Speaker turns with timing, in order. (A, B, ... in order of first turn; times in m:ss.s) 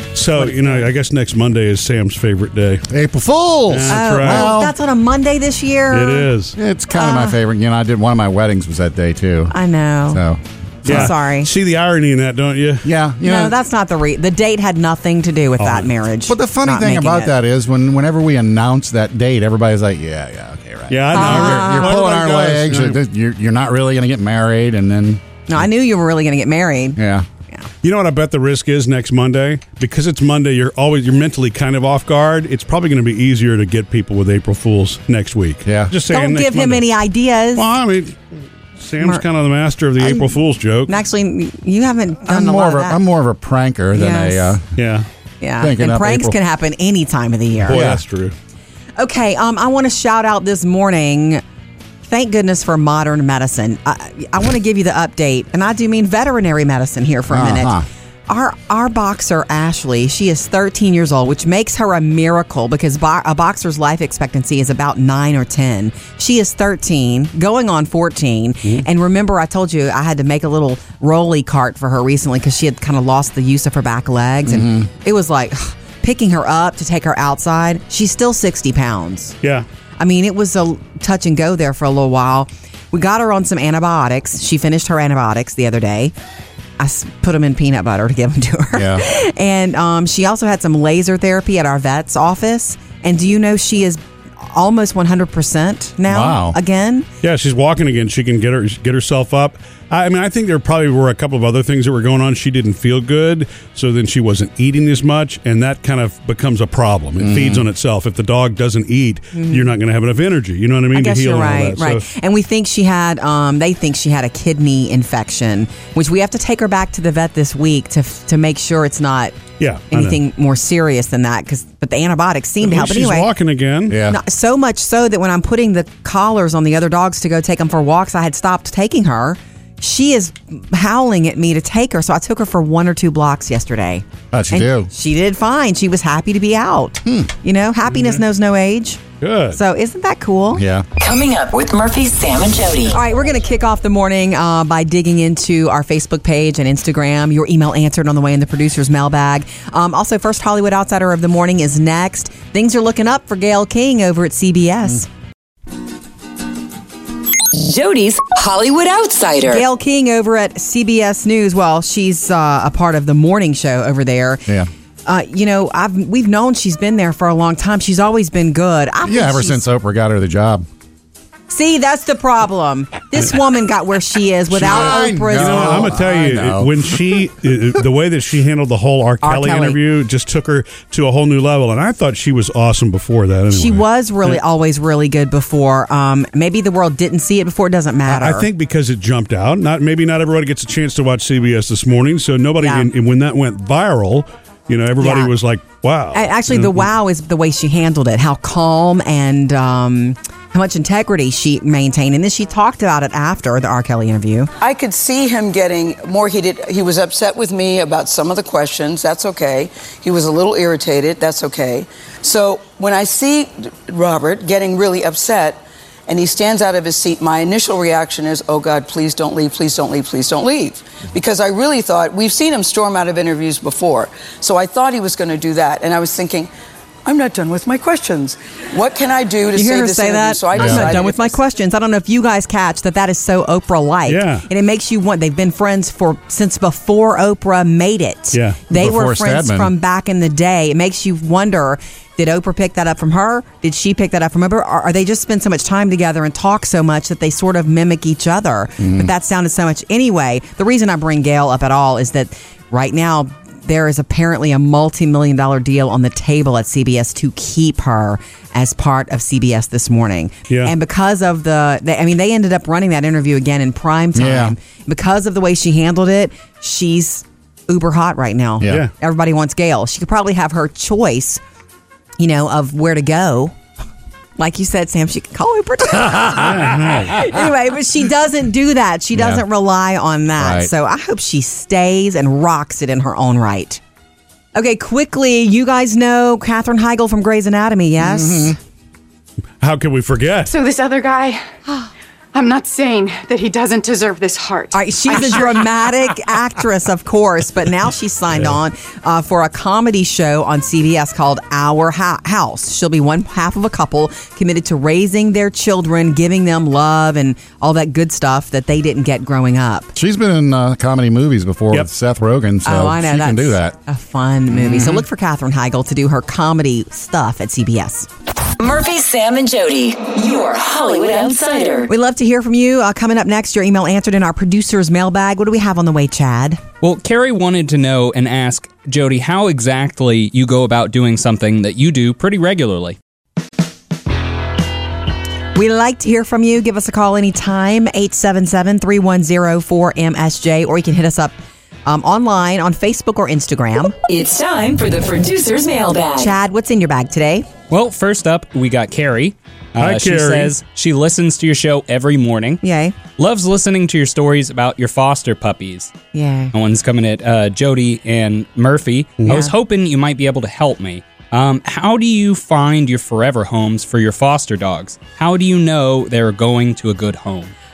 0:00.1-0:02.9 A
0:02.9-0:04.7 B
0:03.7-0:04.5 A
0:03.9-0:06.3 C
0:05.9-0:06.6 A
0:06.6-0:09.5 B
0:06.9-0:07.4 C
0:09.5-0:10.2 C
0:10.1-0:11.1 B
0:10.8-0:12.8 A
0:10.9-0:11.5 C
0:12.8-0:13.6 B
0:13.2-0:17.3 C
0:15.6-0:15.9 A
0:16.3-0:25.2 B
0:20.9-0:23.0 A
0:21.1-0:22.0 C
0:25.5-0:27.0 C
0:27.0-0:27.2 B
0:27.8-0:36.9 A
0:35.6-0:35.9 B
0:36.1-0:37.6 C
0:37.5-0:38.2 A
0:38.8-0:40.9 A
0:40.0-0:43.0 C
0:42.2-0:44.7 B
0:43.9-0:44.6 C
0:44.8-0:45.0 A
0:45.4-0:47.9 C
0:45.6-0:46.4 B
0:47.7-0:48.3 A
0:47.7-0:48.0 B
0:49.0-0:51.4 C
0:52.0-0:57.7 C
0:57.3-0:57.8 B
0:58.3-1:19.3 C
1:14.5-1:14.9 B
1:20.0-1:26.1 C
1:26.8-1:37.1 C
1:28.7-1:29.0 B
1:36.1-1:36.6 B
1:37.2-1:52.1 A
1:47.2-1:47.6 B
1:49.3-1:49.7 C
1:50.9-1:59.4 C
1:59.6-2:00.2 A
1:59.9-2:03.3 C
2:02.6-2:04.0 A
2:03.9-2:04.2 B
2:04.0-2:19.0 C
2:14.3-2:14.9 B
2:17.0-2:17.3 B
2:19.2-2:19.6 A
2:19.5-2:20.6 C
2:20.5-2:20.9 B
2:21.0-2:23.0 D
2:22.9-2:35.1 C
2:37.5-2:39.6 D
2:39.4-2:44.4 C
2:45.0-2:49.6 C
2:49.0-2:50.7 B
2:51.5-2:56.0 C
2:54.5-2:57.0 B
2:55.3-3:04.4 A
2:59.2-2:59.8 C
3:03.5-3:08.5 C
3:08.1-3:16.8 A
3:12.6-3:12.9 C
3:15.0-3:15.3 C
3:16.1-3:24.5 C
3:24.6-3:46.5 E
3:47.0-3:51.4 E
3:49.5-4:31.4 C
3:50.5-3:51.0 B
3:54.1-3:54.5 A
3:58.3-3:58.6 A
3:58.7-3:59.7 B
4:08.8-4:09.1 B
4:24.2-4:24.5 B
4:32.2-4:33.6 C
4:34.4-4:43.8 C
4:36.4-4:37.2 A
4:39.1-4:39.4 B
4:40.4-4:40.7 B
4:44.5-4:48.6 C
4:48.0-4:48.6 B
4:49.6-4:50.5 A
4:50.5-4:51.4 F
4:52.3-4:54.7 F
4:54.7-5:09.9 C
5:09.9-5:13.8 B
5:12.6-5:18.1 C
5:14.5-5:15.0 B
5:18.6-5:21.9 D
5:21.9-5:26.6 C
5:26.8-5:33.0 G
5:35.5-5:44.0 C
5:44.0-5:46.3 D
5:46.1-5:47.4 C
5:47.7-5:52.6 G
5:49.8-5:50.5 A
5:52.6-5:52.9 C
5:53.2-5:55.9 G
5:56.1-5:56.5 C
5:56.5-6:07.5 G